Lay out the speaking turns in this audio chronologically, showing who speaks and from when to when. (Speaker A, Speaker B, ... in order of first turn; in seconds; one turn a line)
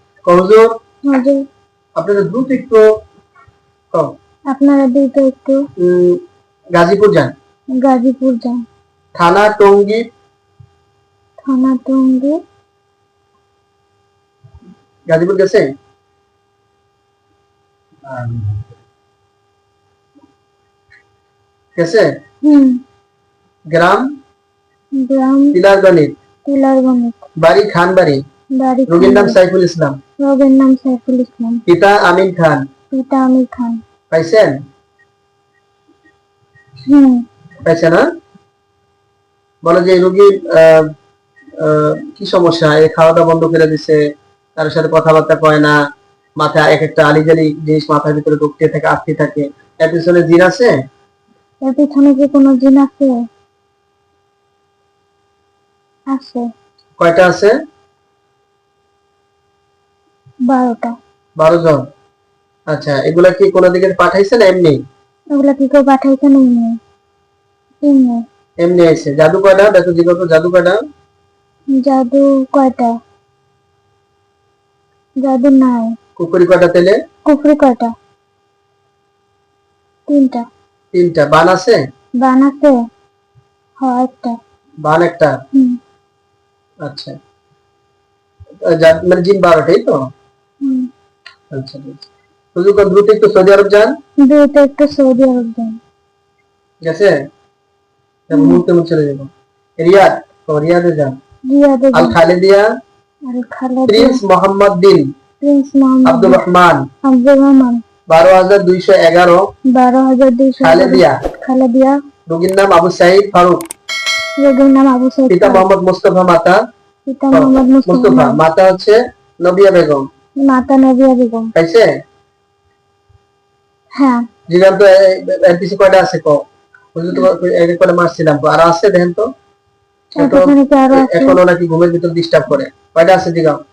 Speaker A: 0.2-0.7
Speaker B: 1.1-1.4
Speaker A: 2.0-2.8
Speaker B: 4.5-5.6
Speaker A: 5.8-6.2
Speaker A: 6.7-7.3
Speaker B: 7.7-8.6
Speaker A: 9.1-10.0
Speaker B: 11.4-12.4
Speaker A: 15.1-15.7
Speaker A: 18.1-18.6
Speaker A: 21.8-22.1
Speaker B: 22.4-22.8
Speaker A: 23.7-24.1
Speaker B: 24.9-25.6
Speaker A: 25.5-26.1
Speaker B: 26.4-27.2
Speaker A: 27.4-28.2
Speaker B: 28.6-29.4
Speaker A: 28.9-30.0
Speaker B: 30.2-31.6
Speaker A: 31.7-32.6
Speaker B: 32.9-33.8
Speaker A: 34.1-34.5
Speaker B: 36.9-37.2
Speaker A: 37.6-38.0
Speaker A: 39.6-40.9
Speaker A: 41.6-44.0
Speaker A: 44.6-45.7
Speaker A: 46.4-50.7
Speaker B: 51.6-53.1
Speaker B: 56.1-56.4
Speaker A: 57.0-57.5
Speaker B: 60.5-60.9
Speaker A: 61.4-61.8
Speaker A: 62.7-64.8
Speaker B: 65.3-66.8
Speaker B: 67.8-68.2
Speaker A: 68.6-70.8
Speaker B: 71.7-72.9
Speaker B: 75.2-75.9
Speaker A: 76.2-77.0
Speaker B: 77.2-77.9
Speaker B: 80.1-80.5
Speaker A: 80.9-81.8
Speaker B: 82.2-82.7
Speaker B: 83.8-84.4
Speaker A: 84.8-85.4
Speaker A: 86.8-87.2
Speaker A: 88.6-90.0
Speaker B: 90.6-90.9
Speaker A: 91.5-93.9
Speaker B: 94.2-95.8
Speaker A: 96.8-97.1
Speaker A: 98.3-101.2
Speaker B: 98.3-98.6
Speaker B: 101.5-102.1
Speaker A: 101.9-102.7
Speaker B: 103.3-104.2
Speaker A: 103.9-105.0
Speaker B: 105.4-106.4
Speaker A: 106.0-106.8
Speaker B: 107.0-107.8
Speaker A: 108.1-109.5
Speaker B: 109.7-112.0
Speaker A: 110.6-111.2
Speaker A: 112.3-113.6
Speaker B: 114.4-115.6
Speaker A: 115.3-116.6
Speaker B: 117.1-118.4
Speaker A: 117.3-120.1
Speaker B: 120.4-121.5
Speaker A: 121.5-121.9
Speaker B: 124.0-124.2
Speaker A: 124.5-126.4
Speaker A: 127.0-129.3
Speaker B: 130.2-131.4
Speaker A: 130.2-133.6